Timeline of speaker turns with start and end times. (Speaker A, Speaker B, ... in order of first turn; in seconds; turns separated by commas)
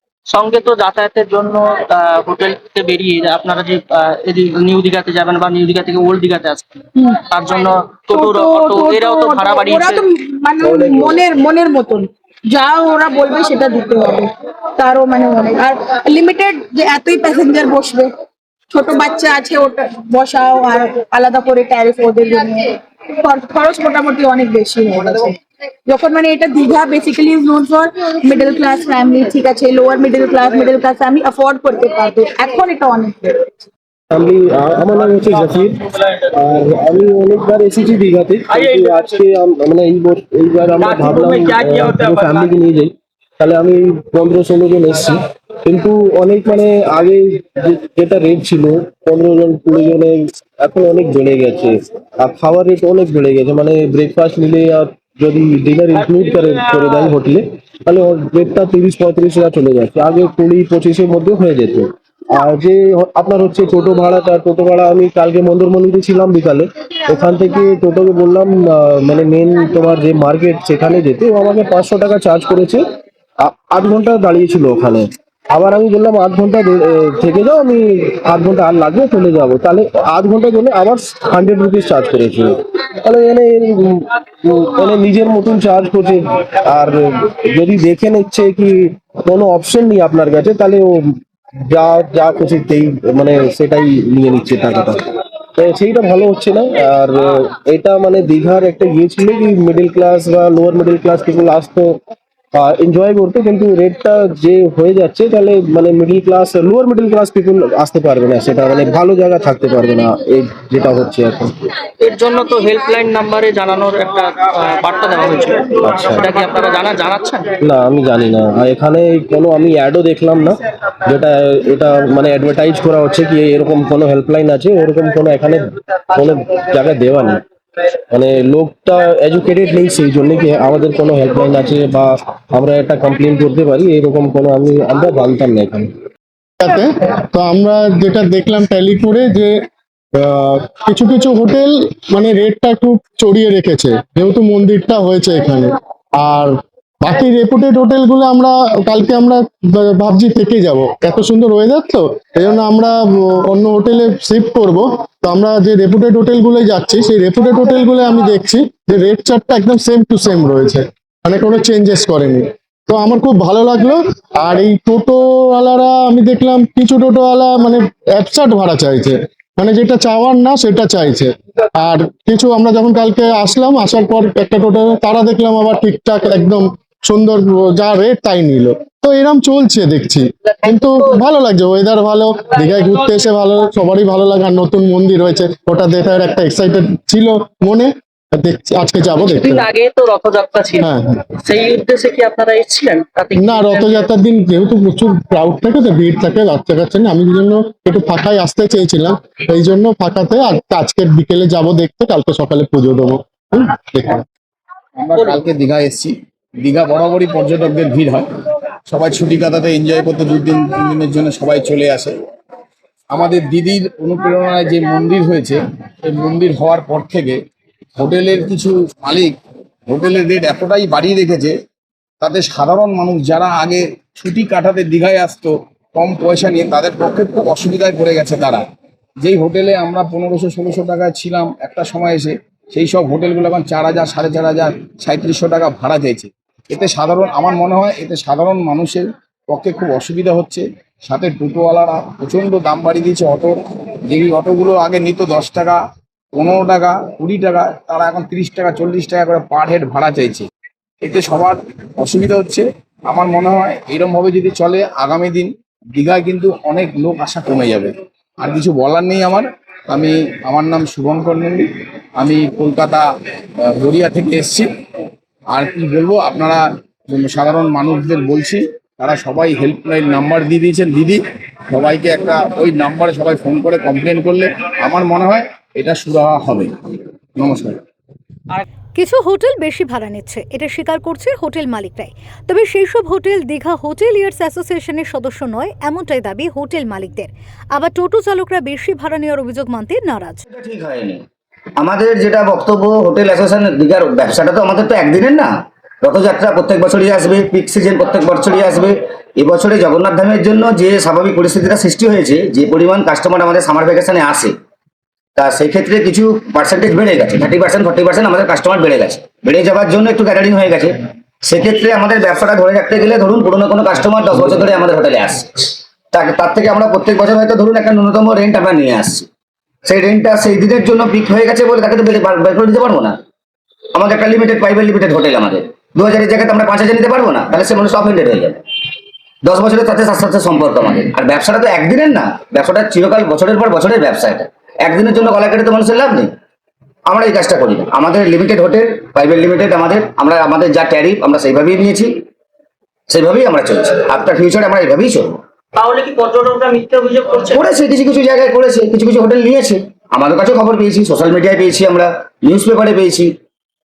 Speaker A: 0.3-6.7, Speaker A: 7.3-10.1, Speaker B: 8.1-18.1, Speaker C: 10.6-11.2, Speaker B: 18.7-33.6, Speaker C: 34.1-72.8, Speaker A: 38.5-39.2, Speaker A: 40.8-42.5, Speaker C: 73.4-91.2, Speaker C: 91.7-95.0, Speaker C: 95.6-102.0, Speaker C: 102.5-111.7, Speaker A: 112.0-117.5, Speaker C: 115.8-116.4, Speaker C: 117.6-127.4, Speaker C: 128.1-135.9, Speaker D: 136.6-139.5, Speaker D: 140.2-189.7, Speaker A: 180.7-180.9, Speaker A: 189.3-190.9, Speaker D: 190.8-191.1, Speaker A: 191.4-194.1, Speaker D: 193.4-204.2, Speaker E: 205.0-208.2, Speaker E: 208.9-212.1, Speaker E: 213.1-217.4, Speaker E: 218.0-219.4, Speaker E: 219.9-221.5, Speaker E: 222.2-228.6, Speaker E: 229.2-245.8, Speaker E: 246.3-250.5, Speaker E: 251.0-263.0, Speaker E: 263.6-264.7, Speaker E: 265.5-276.7, Speaker E: 277.4-277.8, Speaker F: 279.0-290.4, Speaker G: 290.5-291.2, Speaker G: 291.8-304.6, Speaker G: 305.4-319.3, Speaker G: 319.9-323.2, Speaker G: 323.9-328.6, Speaker G: 329.4-336.3, Speaker G: 337.1-342.2, Speaker G: 343.1-345.4, Speaker A: 345.8-347.7, Speaker G: 347.5-353.4